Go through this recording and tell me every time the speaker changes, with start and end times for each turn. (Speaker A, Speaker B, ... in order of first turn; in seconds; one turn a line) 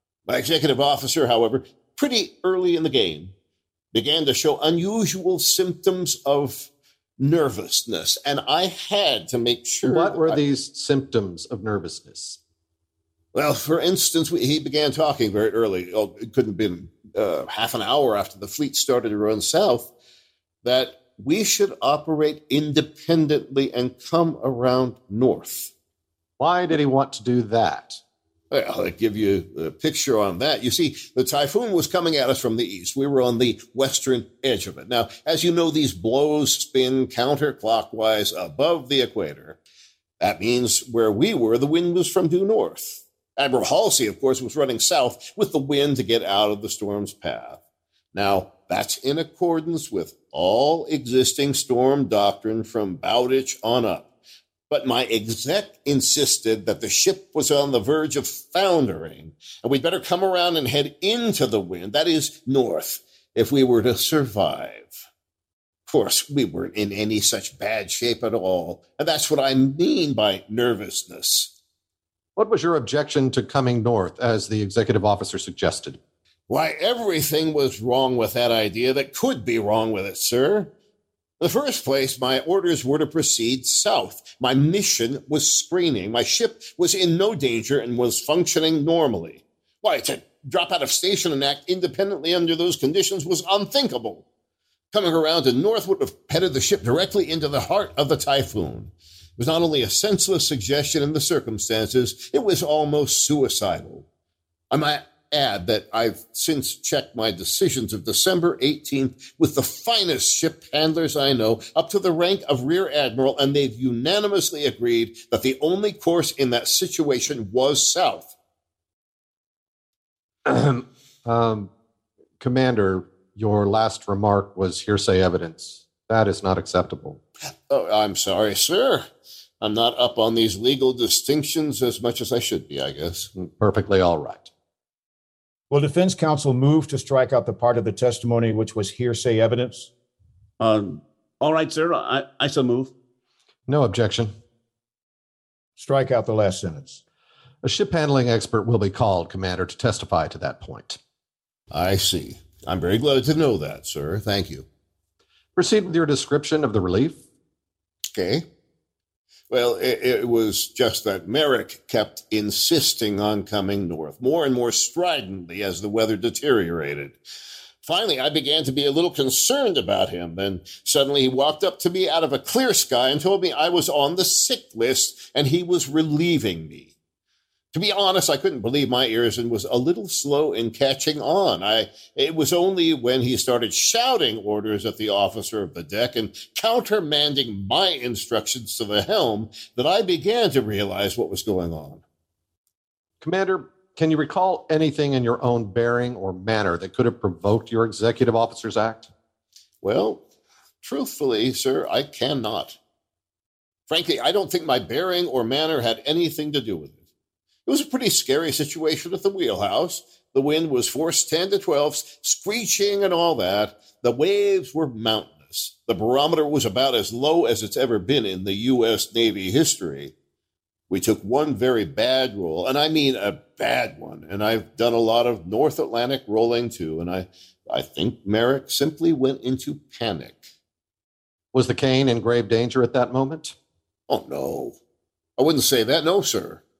Speaker A: 0.3-3.3
Speaker A: 3.9-10.4
Speaker B: 9.8-12.4
Speaker A: 13.3-19.9
Speaker A: 20.6-25.7
Speaker B: 26.4-28.0
Speaker A: 28.5-39.6
Speaker A: 40.2-47.6
Speaker A: 48.1-54.0
Speaker A: 54.7-64.9
Speaker A: 65.9-71.5
Speaker B: 72.3-76.0
Speaker A: 76.5-80.7
Speaker A: 81.4-94.2
Speaker A: 94.9-104.0
Speaker A: 104.7-118.3
Speaker B: 120.4-121.7
Speaker B: 122.4-127.2
Speaker A: 127.7-129.0
Speaker A: 129.6-133.3
Speaker B: 133.3-134.5
Speaker C: 135.7-139.9
Speaker D: 140.6-142.9
Speaker B: 143.7-144.3
Speaker C: 145.8-147.0
Speaker B: 147.6-151.0
Speaker A: 151.7-154.6
Speaker B: 155.6-157.2
Speaker A: 158.1-158.4
Speaker A: 159.5-167.2
Speaker A: 167.8-176.9
Speaker A: 177.7-192.0
Speaker B: 193.2-199.1
Speaker A: 199.8-200.2
Speaker A: 200.8-202.8
Speaker A: 203.9-207.0
Speaker A: 207.7-220.1
Speaker A: 220.9-230.4
Speaker B: 231.5-233.5
Speaker A: 234.1-234.8
Speaker A: 235.4-236.6